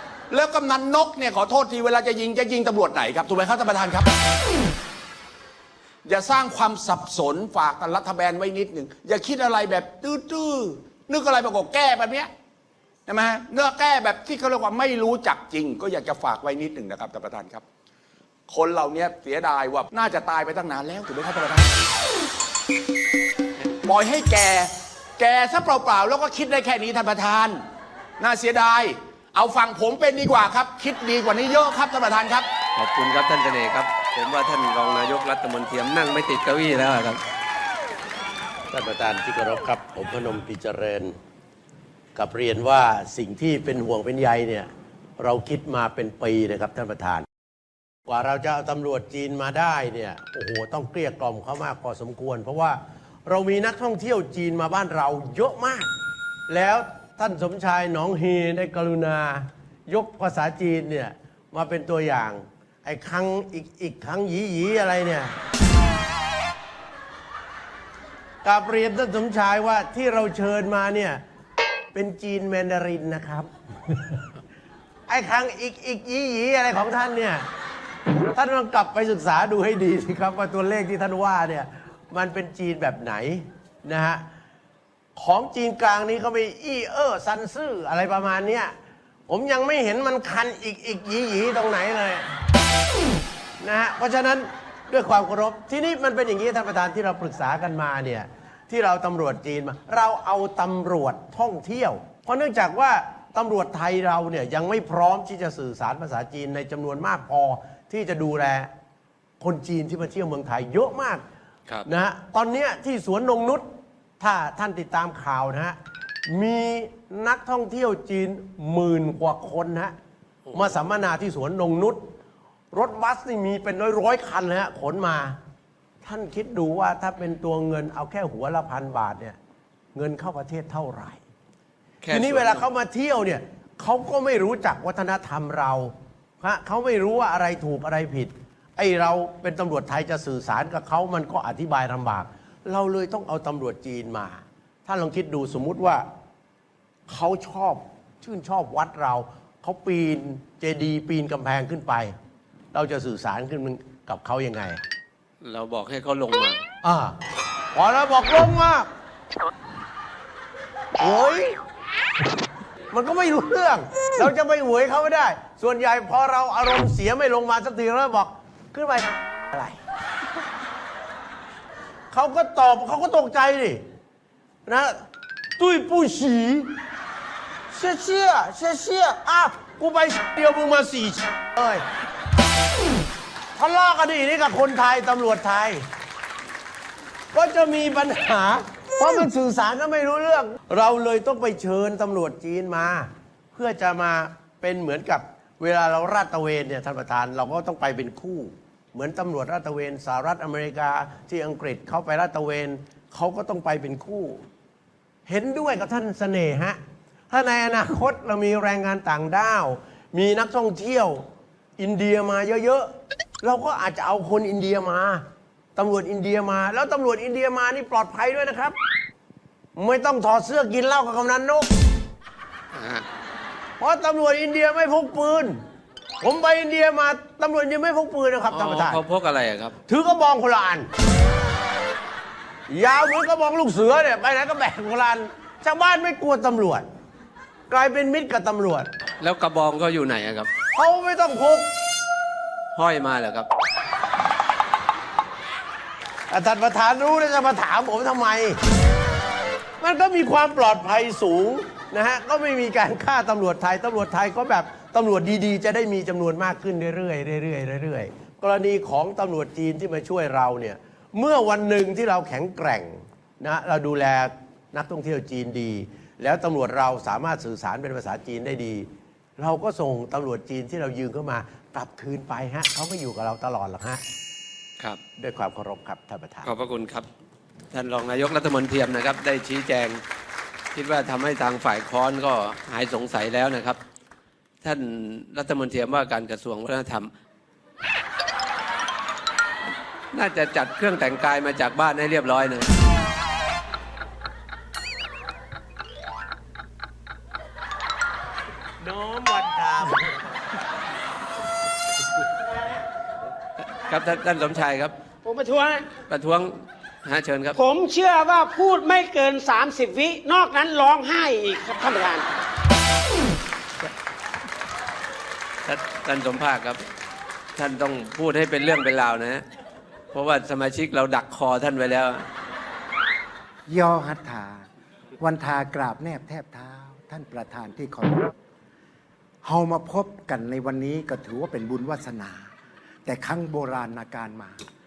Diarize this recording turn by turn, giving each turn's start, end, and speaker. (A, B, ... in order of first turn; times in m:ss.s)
0:00.3-0:04.1 A
0:06.0-0:12.3 A
0:13.1-0:17.6 A
0:18.5-0:21.7 A
0:23.8-0:27.6 A
0:28.2-0:32.5 A
0:32.8-0:37.2 B
0:38.7-0:41.2 C
0:42.1-0:47.3 C
0:48.0-0:55.9 C
0:56.5-1:05.4 C
1:08.4-1:11.2 C
1:11.9-1:14.2 C
1:15.1-1:17.5 C
1:18.3-1:24.3 C
1:25.2-1:28.7 C
1:29.3-1:32.4 C
1:33.6-1:48.7 C
1:49.4-1:51.2 C
1:51.8-1:59.9 C
2:00.5-2:00.7 B
2:00.5-2:02.1 C
2:02.7-2:05.4 C
2:06.0-2:09.4 C
2:09.9-2:11.2 C
2:12.0-2:12.6 B
2:12.1-2:26.1 C
2:27.1-2:32.1 C
2:32.7-2:34.8 C
2:35.4-2:36.6 B
2:36.8-2:37.2 C
2:37.7-2:38.9 C
2:41.0-2:41.6 C
2:42.9-2:49.8 C
2:52.1-2:53.8 C
2:54.6-2:55.0 C
2:55.6-2:56.7 C
2:57.7-3:01.8 C
3:03.6-3:05.8 C
3:07.3-3:24.4 C
3:25.2-3:31.3 C
3:31.8-3:38.8 C
3:39.7-3:41.7 C
3:42.7-3:43.0 B
3:43.8-3:45.6 C
3:46.2-3:49.0 C
3:48.5-3:49.7 B
3:49.8-3:50.9 C
3:52.7-3:56.9 C
3:57.7-3:58.9 C
3:59.2-4:00.5 B
4:00.7-4:01.7 C
4:02.7-4:03.5 B
4:06.3-4:08.6 C
4:09.8-4:34.0 C
4:35.2-4:36.5 C
4:36.4-4:37.0 B
4:37.7-4:40.0 B
4:40.7-4:43.8 B
4:44.6-4:47.1 B
4:50.1-4:52.7 B
4:58.8-5:00.1 C
5:03.8-5:04.9 B
5:05.2-5:05.9 D
5:05.9-5:07.6 B
5:07.5-5:12.3 D
5:15.6-5:16.8 B
5:17.6-5:19.4 B
5:20.1-5:22.2 B
5:23.7-5:24.6 E
5:25.2-5:28.3 E
5:29.4-5:32.4 E
5:33.0-5:34.6 E